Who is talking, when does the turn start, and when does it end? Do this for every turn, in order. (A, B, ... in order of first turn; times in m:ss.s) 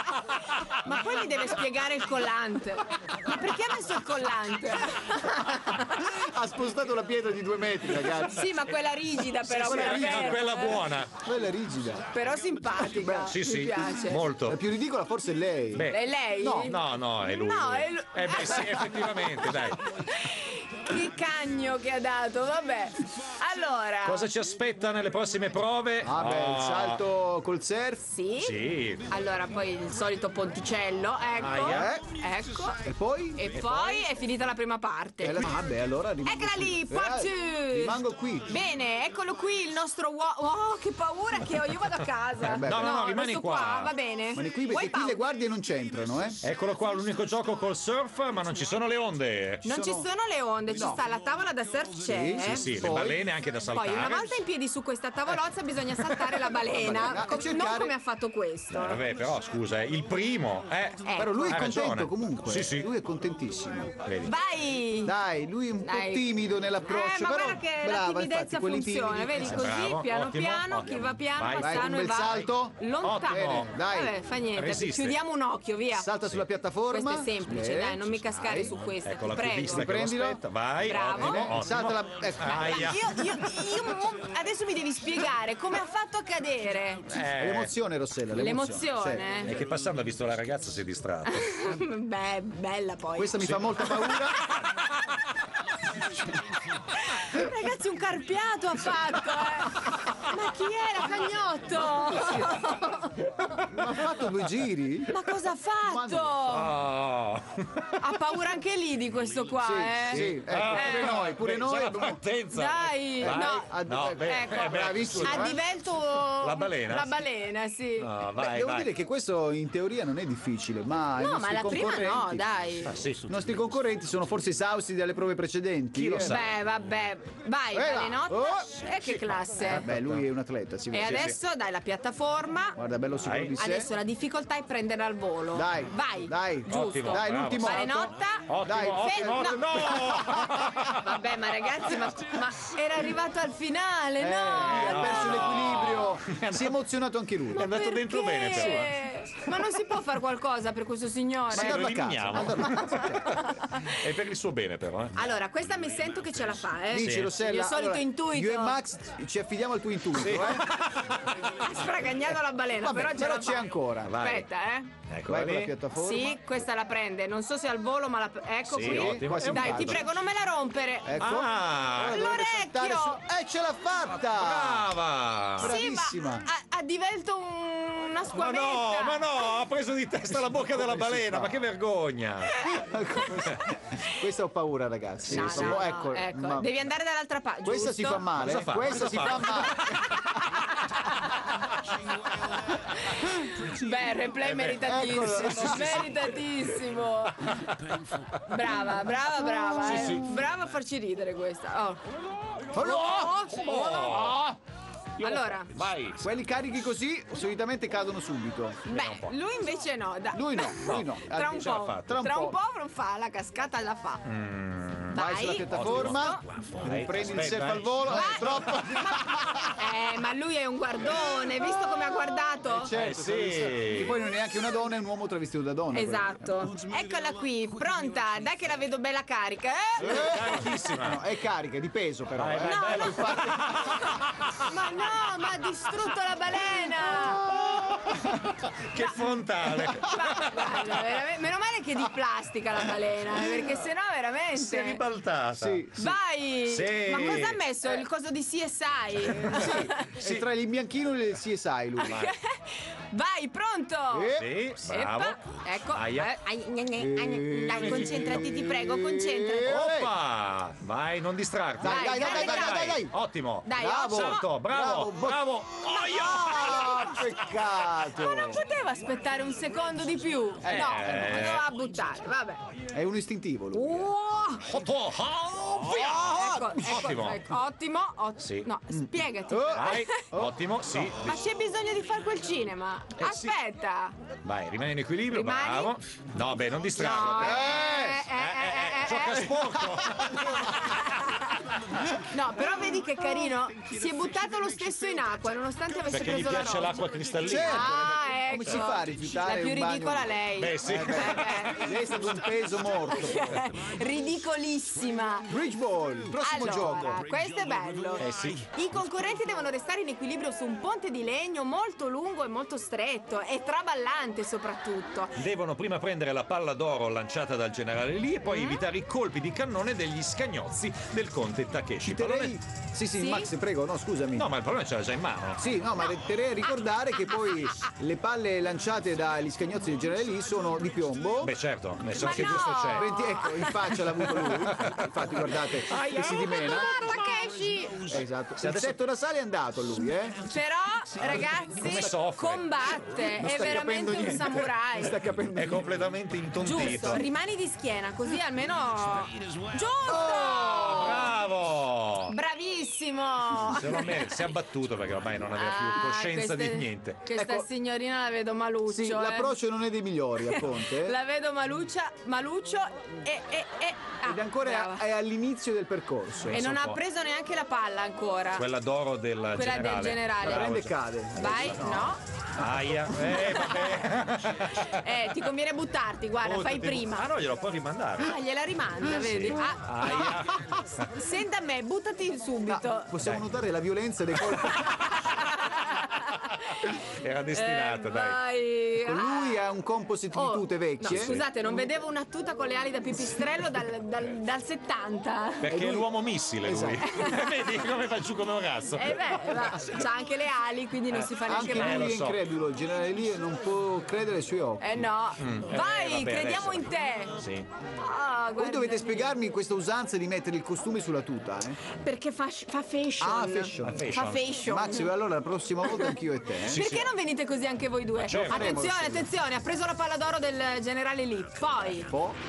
0:00.8-0:06.1 A
0:05.6-0:08.5 B
0:07.9-0:10.8 A
0:09.4-0:11.1 C
0:09.6-0:10.6 B
0:11.1-0:12.1 B
0:12.1-0:14.2 A
0:12.8-0:13.3 B
0:13.3-0:14.6 C
0:14.4-0:16.7 B
0:15.7-0:19.8 C
0:15.9-0:24.2 A
0:24.0-0:27.0 C
0:26.0-0:28.1 B
0:28.1-0:32.8 A
0:28.4-0:29.0 C
0:31.4-0:31.9 C
0:31.7-0:32.0 B
0:32.8-0:33.5 B
0:33.4-0:35.5 A
0:35.2-0:38.5 B
0:36.2-0:45.2 A
0:42.4-0:42.9 B
0:42.4-0:43.9 C
0:44.3-0:46.4 B
0:46.4-0:49.6 C
0:49.6-0:52.6 A
0:49.7-0:50.1 B
0:50.7-0:51.0 B
0:52.0-0:53.2 B
0:52.4-0:54.4 C
0:53.7-0:59.0 A
0:56.0-0:56.5 C
0:56.7-0:57.9 B
0:58.7-1:02.9 C
1:01.0-1:01.5 A
1:01.2-1:04.0 B
1:04.0-1:04.3 C
1:04.2-1:05.1 A
1:05.0-1:09.7 B
1:05.8-1:06.3 A
1:06.8-1:16.1 A
1:09.4-1:12.4 C
1:11.6-1:14.1 B
1:13.0-1:13.7 C
1:14.5-1:15.2 C
1:15.9-1:18.7 B
1:16.9-1:19.8 A
1:19.0-1:23.2 C
1:19.7-1:20.4 B
1:20.8-1:21.5 A
1:20.9-1:23.0 B
1:22.4-1:27.0 A
1:27.1-1:27.7 C
1:27.4-1:29.2 B
1:28.4-1:29.5 A
1:29.4-1:31.6 C
1:31.3-1:35.0 A
1:33.2-1:34.4 B
1:36.9-1:43.2 A
1:43.5-1:43.9 C
1:43.7-1:45.1 B
1:45.1-1:46.7 A
1:45.8-1:46.4 B
1:46.4-1:48.1 C
1:48.0-1:51.1 A
1:49.6-1:52.2 B
1:50.1-1:55.6 C
1:52.5-1:58.1 A
1:53.2-1:55.6 B
1:56.4-1:57.2 C
1:58.0-1:58.9 C
1:58.4-2:02.4 B
2:01.2-2:03.0 A
2:02.8-2:03.3 C
2:03.3-2:06.4 B
2:05.9-2:06.5 C
2:06.2-2:09.8 A
2:07.7-2:08.7 B
2:09.0-2:10.2 C
2:09.6-2:11.3 B
2:10.9-2:12.8 A
2:11.0-2:11.4 C
2:12.8-2:13.9 B
2:13.2-2:13.5 C
2:13.6-2:19.9 A
2:15.5-2:20.9 B
2:16.7-2:21.0 C
2:21.0-2:25.6 A
2:24.2-2:27.6 B
2:24.6-2:26.7 C
2:27.5-2:29.0 C
2:27.5-2:31.9 A
2:31.5-2:35.2 C
2:31.5-2:33.2 B
2:32.7-2:33.9 A
2:35.1-2:38.8 A
2:36.9-2:40.6 B
2:37.0-2:37.3 C
2:40.1-2:41.2 C
2:40.7-2:44.9 A
2:42.8-2:44.2 B
2:44.0-2:44.5 C
2:45.1-2:45.7 C
2:45.3-2:46.4 B
2:46.0-2:51.4 A
2:48.7-2:50.0 C
2:48.8-2:50.0 B
2:51.0-2:54.9 B
2:51.2-2:52.2 C
2:52.0-2:53.2 A
2:54.1-2:55.7 C
2:55.6-2:56.5 B
2:55.6-2:59.5 A
2:58.3-3:02.7 C
3:00.4-3:01.6 B
3:02.6-3:03.6 A
3:02.6-3:06.7 B
3:05.2-3:08.3 A
3:05.3-3:05.8 C
3:07.6-3:10.2 B
3:08.4-3:09.9 C
3:09.6-3:11.7 A
3:12.9-3:17.6 A
3:14.4-3:16.3 C
3:14.7-3:16.1 B
3:17.4-3:18.2 C
3:18.4-3:22.0 A
3:19.8-3:20.2 C
3:22.7-3:24.4 B
3:22.7-3:24.3 A
3:22.8-3:24.6 C
3:25.2-3:26.2 C
3:25.2-3:25.7 A
3:26.2-3:28.8 B
3:28.9-3:34.2 A
3:28.9-3:29.3 C
3:30.3-3:32.6 B
3:30.8-3:32.2 C
3:34.2-3:39.7 C
3:35.1-3:36.4 A
3:35.1-3:39.7 B
3:38.1-3:42.9 A
3:42.7-3:46.7 B
3:42.9-3:44.1 C
3:45.9-3:50.4 A
3:50.0-3:51.2 C
3:50.0-3:54.0 B
3:52.4-3:54.7 C
3:52.6-3:53.4 A
3:54.6-3:57.5 A
3:57.1-3:58.4 B
3:57.5-4:01.1 C
3:59.9-4:05.0 A
4:04.5-4:05.9 C
4:05.6-4:06.0 B
4:06.0-4:10.1 A
4:06.6-4:07.6 C
4:09.2-4:12.2 B
4:09.3-4:10.4 C
4:12.0-4:19.8 A
4:12.0-4:12.4 C
4:14.1-4:14.5 B
4:14.4-4:16.3 C
4:17.0-4:20.1 B
4:17.7-4:18.5 C
4:19.6-4:27.1 C
4:21.8-4:23.1 B
4:21.8-4:23.0 A
4:23.6-4:24.5 A
4:23.7-4:25.4 B
4:25.9-4:27.2 A
4:25.9-4:28.6 B
4:28.1-4:32.6 A
4:30.6-4:31.7 C
4:30.7-4:31.2 B
4:32.9-4:34.1 B
4:33.7-4:34.6 A
4:34.6-4:37.5 C
4:35.8-4:37.1 B
4:36.1-4:40.2 A
4:38.4-4:38.7 C
4:38.9-4:40.6 B
4:39.7-4:41.4 C
4:41.2-4:44.1 A
4:43.2-4:43.5 C
4:44.4-4:51.1 C
4:45.3-4:45.9 A
4:46.9-4:49.7 A
4:47.4-4:48.3 B
4:49.8-4:50.7 B
4:50.6-4:51.6 A
4:52.3-4:57.0 A
4:56.1-4:58.1 C
4:57.4-5:03.5 B
4:57.5-5:01.9 A
5:00.6-5:01.7 C
5:03.1-5:05.5 A
5:05.5-5:07.2 B
5:06.4-5:15.4 A
5:08.2-5:08.7 C
5:15.4-5:22.6 C
5:18.5-5:18.8 A
5:22.0-5:24.5 B
5:23.1-5:23.5 A
5:24.4-5:25.6 C
5:25.6-5:31.5 B
5:31.4-5:33.1 C
5:32.2-5:33.9 A
5:32.3-5:36.9 B
5:33.9-5:37.1 C
5:36.0-5:38.1 A
5:38.1-5:40.4 B
5:38.6-5:38.9 C
5:40.4-5:45.2 A
5:41.2-5:42.6 C
5:43.2-5:45.9 B
5:45.5-5:47.2 C
5:46.6-5:51.3 A
5:50.0-5:51.3 B
5:50.9-5:52.3 C
5:52.3-5:54.4 A
5:53.5-5:57.2 C
5:55.5-5:59.6 A
5:57.3-5:57.7 B
5:58.9-6:01.2 B
6:00.4-6:05.0 A
6:04.2-6:06.6 B
6:06.5-6:07.0 C
6:06.5-6:08.6 A
6:08.5-6:11.8 C
6:09.5-6:10.7 A
6:10.4-6:12.1 B
6:11.4-6:12.2 A
6:12.6-6:15.0 C
6:14.8-6:17.3 A
6:16.4-6:18.3 C
6:18.2-6:23.1 A
6:19.0-6:21.1 C
6:22.6-6:25.1 B
6:24.5-6:25.3 C
6:24.8-6:27.0 A
6:26.8-6:28.4 C
6:27.5-6:29.7 A
6:29.0-6:31.4 B
6:30.3-6:35.7 A
6:31.0-6:31.8 C
6:35.6-6:39.6 C
6:35.7-6:36.1 B
6:36.6-6:37.0 B
6:37.0-6:37.7 A
6:39.0-6:42.2 A
6:41.1-6:42.4 C
6:41.4-6:45.1 B
6:44.8-6:47.3 A
6:45.4-6:47.7 C
6:48.0-6:49.4 A
6:48.6-6:51.8 B
6:51.9-6:55.1 A
6:53.2-6:56.8 B
6:53.8-6:54.4 C
6:55.8-7:02.1 A
6:56.7-6:57.1 C
6:58.3-6:58.8 C
6:58.3-6:59.3 B
7:02.0-7:02.4 B